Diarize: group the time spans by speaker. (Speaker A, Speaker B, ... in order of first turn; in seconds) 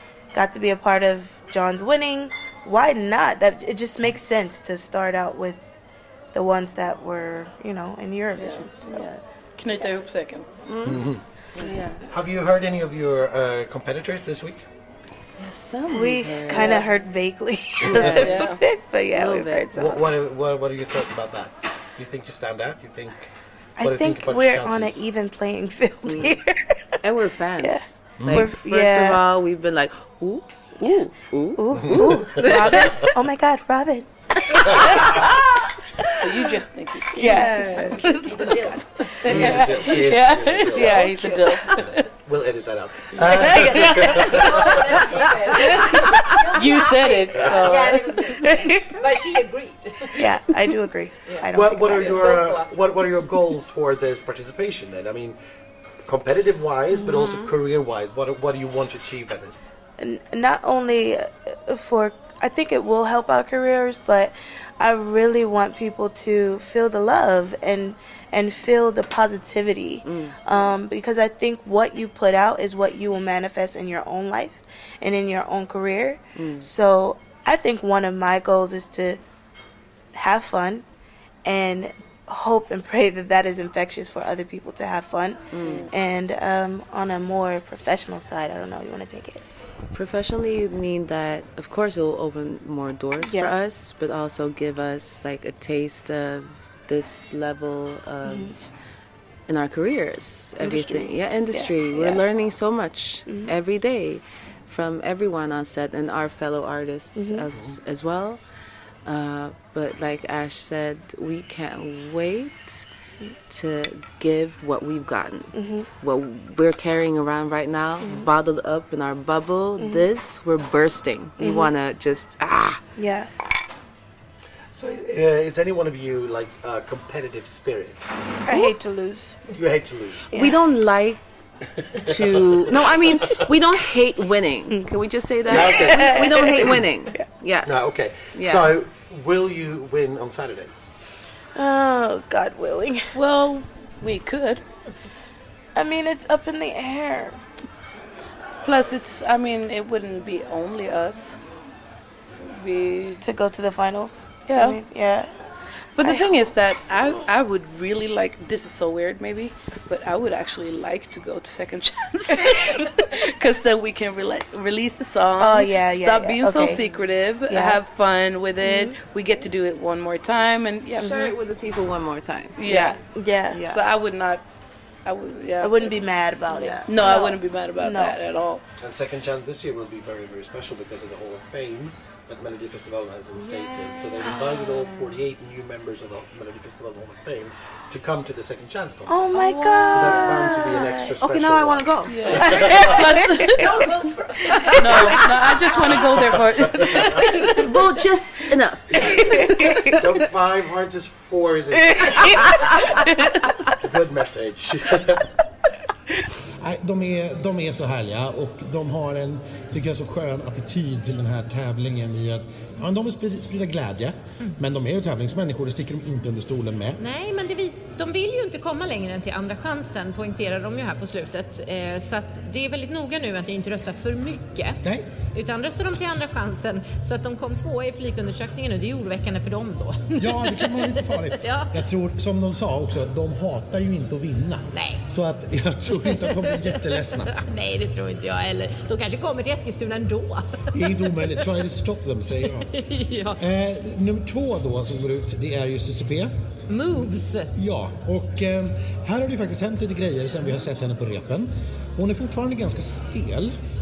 Speaker A: 0.3-5.6, 6.3-9.1, 15.9-20.0, 23.8-26.9, 27.6-29.2, 31.6-35.4, 36.0-36.5, 37.1-41.7, 43.2-44.7, 45.6-46.0, 48.4-48.9, 50.1-52.5, 60.0-79.2, 80.1-80.8, 81.4-89.4, 93.2-93.5, 98.2-98.5, 100.6-102.2, 107.2-107.5, 115.5-115.9, 118.0-118.3, 119.8-120.1, 121.4-121.7, 123.0-123.3, 128.4-129.5, 130.3-130.6, 135.5-137.3, 141.6-143.1, 145.8-147.4, 153.2-155.3, 156.0-156.4, 165.4-166.8, 167.5-167.8, 168.6-168.9, 173.1-173.8, 175.6-178.1, 189.1-191.2, 198.9-200.0
Speaker B: 8.4-9.2, 10.6-11.9, 15.4-16.9, 18.0-18.6, 19.1-19.9, 26.1-26.3, 27.0-33.1, 34.5-35.3, 37.2-38.0, 70.0-70.6, 76.4-76.7, 85.5-85.9, 89.9-98.6, 99.5-108.4, 109.0-112.9, 113.5-122.8, 130.3-131.2, 131.9-137.7, 138.3-138.7, 171.0-173.0, 176.5-176.9, 189.3-190.6, 191.1-192.7, 197.4-199.9
Speaker C: 9.6-10.5, 11.6-12.0, 17.9-18.6, 36.2-42.1, 43.2-44.3, 45.6-48.4, 85.6-85.9, 143.1-144.6, 148.6-151.4, 152.4-153.2, 154.5-154.8, 156.0-171.3, 172.6-173.0, 173.6-174.4, 175.0-175.9, 176.9-178.6, 192.1-193.7, 194.7-197.7
Speaker D: 10.8-11.2, 12.0-14.7, 17.9-18.2, 19.7-25.0, 28.2-28.5, 31.8-32.9, 39.2-41.2, 41.9-45.0, 51.5-55.4, 56.0-59.6, 124.7-128.2, 129.5-130.3, 131.8-133.4, 135.5-136.8, 137.6-140.7, 178.8-192.8, 200.0-202.6, 203.7-205.3, 206.6-217.0, 224.8-225.1, 230.2-237.3, 240.7-242.7, 243.4-246.3, 247.5-253.6
Speaker E: 38.1-38.7, 44.2-50.3, 52.4-52.7, 192.7-195.3, 217.0-224.8, 225.3-231.7, 234.7-235.0, 235.9-241.4, 242.6-243.4, 246.7-247.5